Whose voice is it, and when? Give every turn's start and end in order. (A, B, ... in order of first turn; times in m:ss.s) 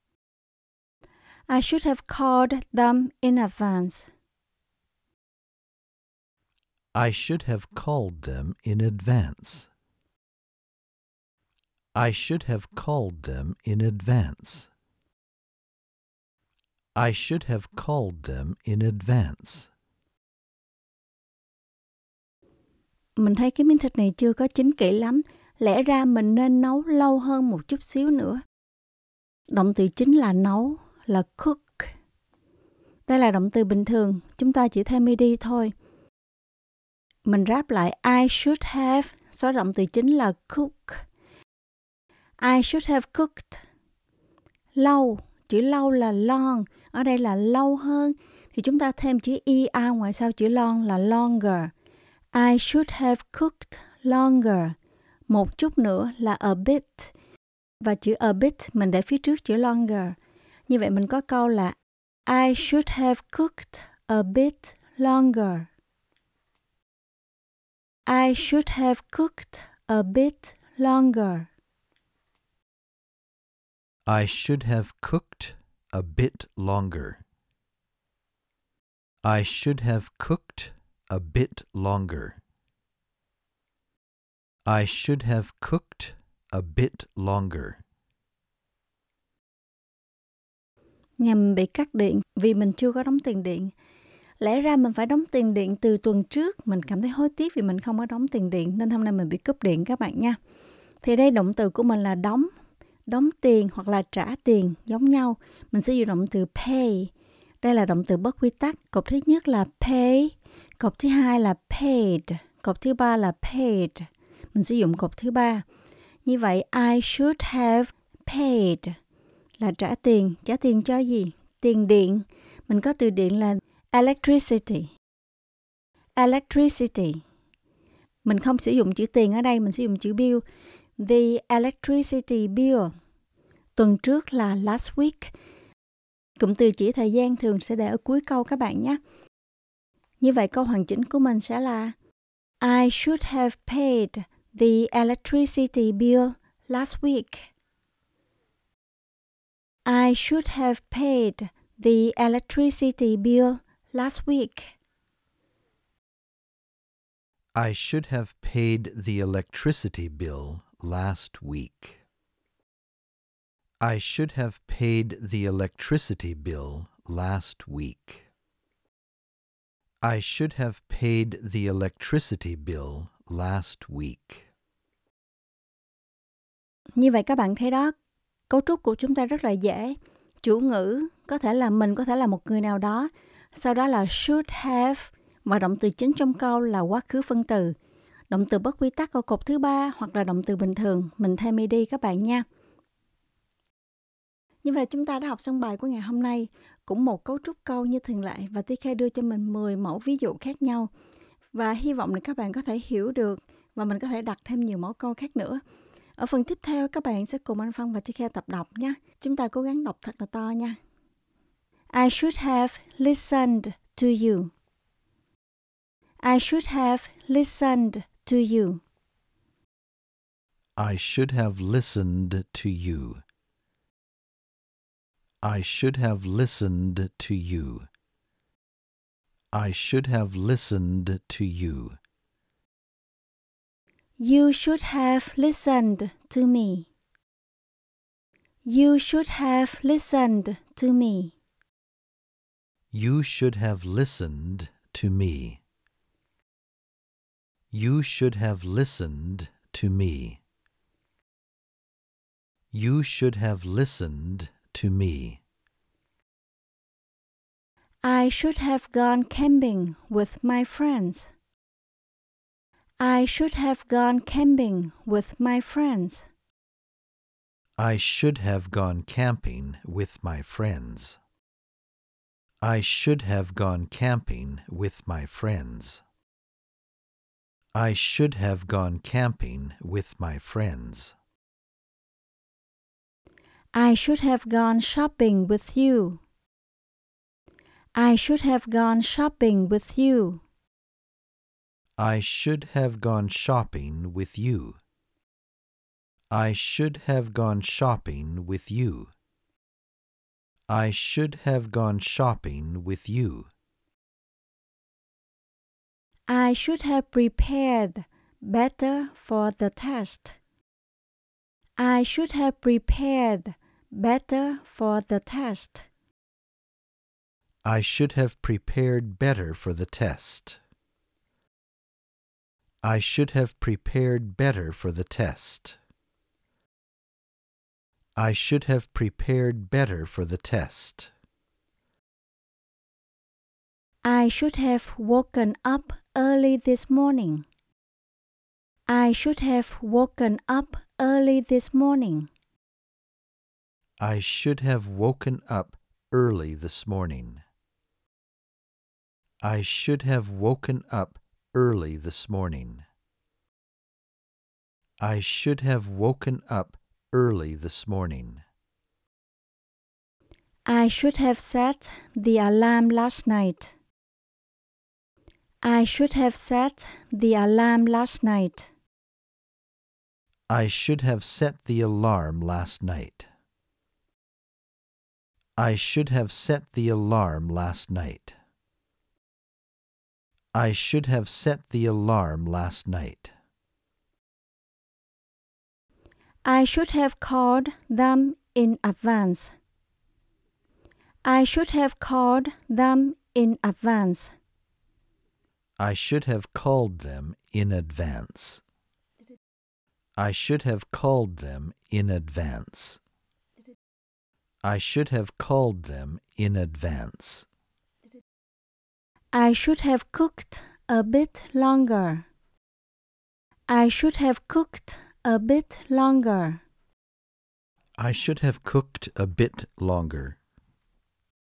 0:01.5-0:04.1 A
0:06.9-0:09.7 B
0:11.9-0:14.7 B
0:17.0-0:19.7 B
0:23.2-0:28.4 A
0:29.5-0:31.9 A
0:33.1-0:35.7 A
0:37.2-0:41.0 A
0:42.4-0:43.6 A
0:44.7-0:51.7 A
0:52.3-0:54.7 A
0:55.3-0:57.1 A
0:57.8-1:00.2 A
1:00.7-1:05.7 A
1:08.1-1:11.5 A
1:14.0-1:17.2 B
1:19.2-1:22.4 B
1:24.6-1:27.8 B
1:31.2-1:33.7 A
1:34.4-1:40.4 A
1:41.0-1:42.5 A
1:43.1-1:47.1 A
1:47.6-1:55.6 A
1:56.2-1:59.0 A
1:59.6-2:04.9 A
2:06.2-2:07.2 A
2:08.2-2:10.4 A
2:11.0-2:12.9 A
2:13.8-2:15.3 A
2:16.4-2:19.0 A
2:20.2-2:21.9 A
2:22.6-2:27.5 A
2:29.8-2:34.7 A
2:37.5-2:42.0 B
2:43.8-2:48.2 B
2:50.0-2:54.4 B
2:57.0-2:57.9 A
2:58.5-3:07.7 A
3:08.3-3:12.4 A
3:14.6-3:20.9 A
3:21.5-3:25.6 A
3:26.2-3:30.8 A
3:31.9-3:34.5 A
3:36.2-3:38.8 A
3:40.8-3:43.2 B
3:45.4-3:47.9 B
3:49.5-3:52.0 B
3:54.2-3:56.9 A
3:58.6-4:01.3 A
4:02.9-4:05.6 B
4:07.7-4:10.4 B
4:12.7-4:15.4 B
4:18.0-4:21.3 A
4:23.0-4:26.3 A
4:27.8-4:31.2 B
4:32.6-4:36.0 B
4:37.7-4:41.1 B
4:43.7-4:46.2 A
4:48.0-4:50.4 A
4:52.0-4:54.8 B
4:56.3-4:59.1 B
5:00.7-5:03.5 B
5:06.3-5:10.4 A
5:11.8-5:15.8 A
5:17.6-5:20.6 B
5:22.8-5:25.8 B
5:28.2-5:31.1 B
5:34.0-5:37.4 A
5:38.9-5:42.3 A
5:44.0-5:47.4 B
5:49.4-5:52.8 B
5:55.0-5:58.4 B
6:00.6-6:03.7 A
6:05.6-6:08.7 A
6:10.5-6:13.3 B
6:15.6-6:18.4 B
6:20.5-6:23.3 B
6:26.4-6:29.5 A
6:31.2-6:34.3 A
6:35.8-6:38.6 B
6:40.2-6:43.0 B
6:44.6-6:47.5 B
6:49.3-6:52.2 A
6:53.7-6:56.6 A
6:58.0-7:00.4 B